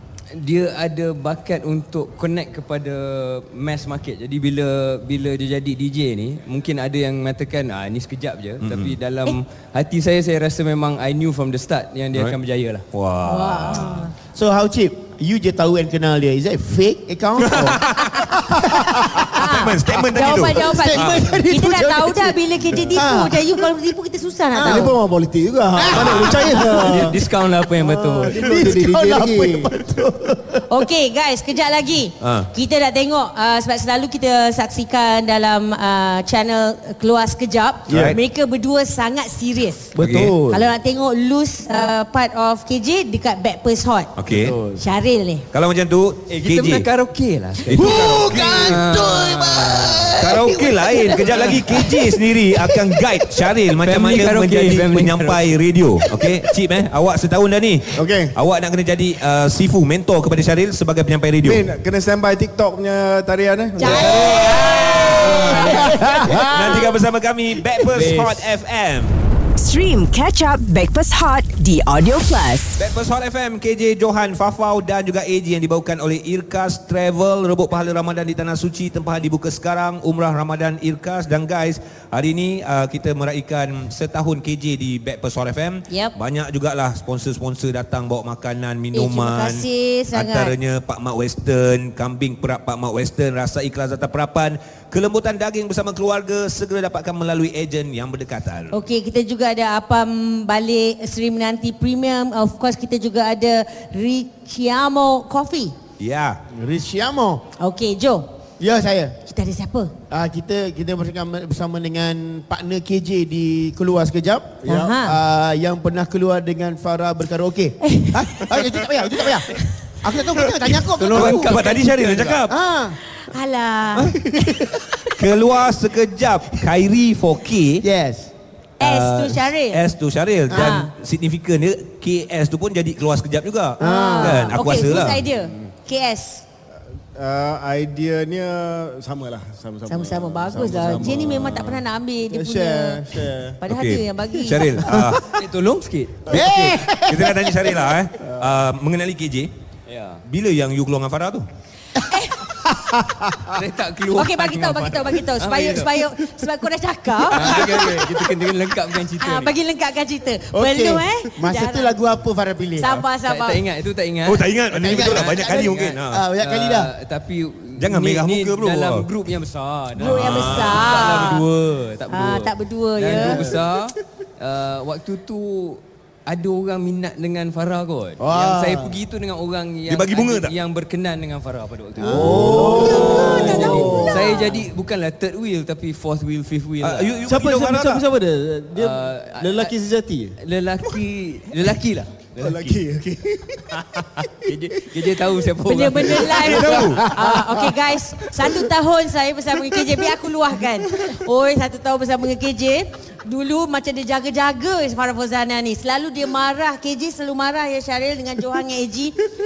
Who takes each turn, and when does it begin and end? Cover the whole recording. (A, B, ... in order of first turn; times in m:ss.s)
0:00.3-0:12.9 A
0:08.6-0:09.0 B
0:12.9-0:14.1 B
0:13.3-0:14.1 C
0:14.3-0:17.9 D
0:17.4-0:18.5 B
0:18.6-0:19.2 E
0:18.6-0:19.3 D
0:19.3-0:25.0 C
0:19.3-0:21.4 B
0:19.9-0:22.4 D
0:22.9-0:23.6 D
0:24.5-0:24.9 D
0:24.6-0:27.2 E
0:25.7-0:27.0 D
0:26.7-0:28.4 A
0:27.8-0:30.6 D
0:27.9-0:29.8 E
0:30.7-0:44.1 C
0:32.2-0:32.5 B
0:37.9-0:38.2 B
0:40.0-0:40.7 D
0:40.0-0:40.4 B
0:44.2-0:44.6 B
0:44.4-0:44.8 D
0:44.8-0:45.4 C
0:45.5-0:46.9 B
0:46.3-0:50.1 A
0:47.7-0:48.8 B
0:47.7-0:53.0 D
0:50.2-1:01.7 B
0:53.8-0:55.6 A
0:57.9-0:58.4 E
1:01.4-1:06.9 E
1:03.8-1:06.8 D
1:03.8-1:05.6 B
1:05.2-1:05.9 A
1:05.4-1:05.9 C
1:06.5-1:09.2 B
1:07.9-1:08.5 A
1:09.6-1:12.8 F
1:12.8-1:38.8 B
1:25.9-1:26.2 C
1:28.9-1:30.5 C
1:38.7-1:45.8 C
1:46.0-1:46.4 B
1:46.5-1:47.4 D
1:47.6-1:48.3 C
1:48.6-1:49.2 D
1:49.3-1:49.9 C
1:50.1-2:01.6 D
1:54.6-1:55.1 E
1:54.7-1:55.2 C
1:57.8-1:58.3 C
2:01.0-2:02.4 A
2:01.1-2:02.6 B
2:02.5-2:03.0 D
2:03.1-2:04.8 C
2:04.1-2:04.7 D
2:05.2-2:07.8 B
2:07.8-2:08.3 D
2:08.8-2:09.9 C
2:08.8-2:15.2 B
2:10.5-2:10.8 D
2:10.5-2:10.9 C
2:13.8-2:14.6 D
2:13.8-2:16.4 C
2:15.2-2:15.7 E
2:17.2-2:23.6 E
2:19.9-2:24.7 C
2:23.7-2:25.3 B
2:25.3-2:26.8 A
2:26.3-2:27.9 D
2:27.0-2:29.5 B
2:28.2-2:28.6 E
2:29.9-2:30.2 A
2:30.3-2:31.5 B
2:32.0-2:32.5 C
2:33.0-2:33.5 E
2:33.5-2:35.9 A
2:34.1-2:37.9 C
2:37.3-2:39.5 A
2:37.4-2:37.7 B
2:39.2-2:42.0 C
2:40.5-2:43.0 D
2:42.8-2:43.6 C
2:43.3-3:07.3 A
2:44.2-2:46.2 B
2:44.8-2:46.9 D
2:47.8-2:49.1 B
2:50.0-2:51.4 C
2:50.0-2:51.2 B
2:52.1-2:53.5 C
2:58.2-2:58.9 D
2:59.9-3:00.5 B
3:02.0-3:04.0 D
3:02.0-3:04.4 E
3:02.7-3:04.6 C
3:06.8-3:08.0 B
3:07.3-3:10.4 E
3:08.8-3:09.7 A
3:10.4-3:12.8 A
3:12.4-3:15.2 E
3:13.8-3:16.7 A
3:15.6-3:29.2 C
3:16.3-3:17.1 B
3:16.4-3:18.7 E
3:19.8-3:20.0 E